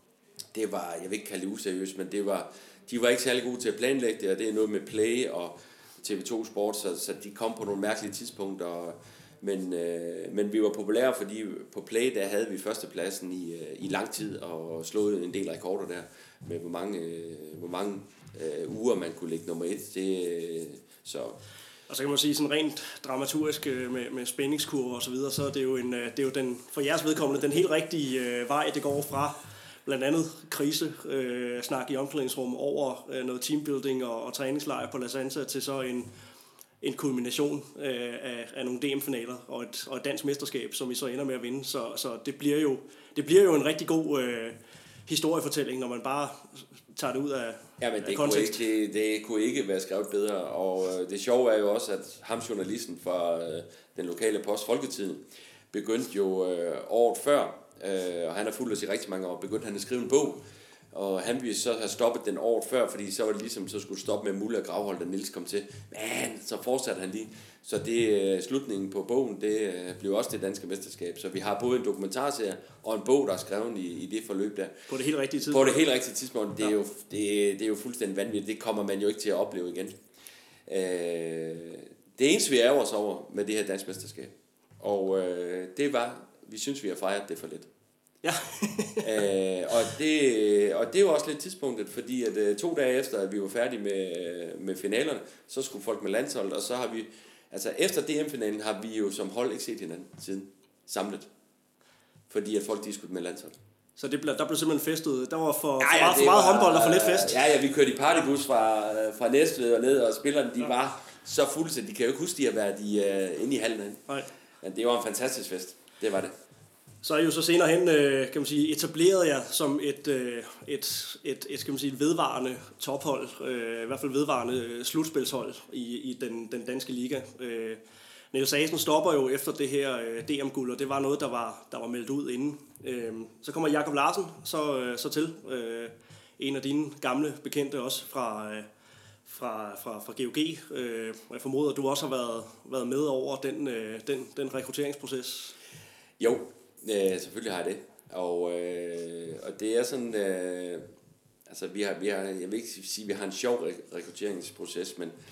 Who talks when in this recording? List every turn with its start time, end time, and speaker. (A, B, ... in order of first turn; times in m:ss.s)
0:00.5-0:21.4 A
0:21.9-0:36.1 B
0:36.8-0:48.6 B
0:47.8-1:14.8 A
1:14.9-1:15.8 B
1:15.4-1:20.0 A
1:20.6-1:27.7 A
1:28.2-1:29.1 B
1:29.0-1:41.3 A
1:42.3-1:43.5 A
1:44.0-1:47.4 B
1:45.8-1:54.0 A
1:54.6-1:56.3 A
1:57.0-2:07.8 B
2:08.3-2:18.7 B
2:19.2-2:25.5 B
2:26.2-2:30.8 A
2:31.5-2:35.1 A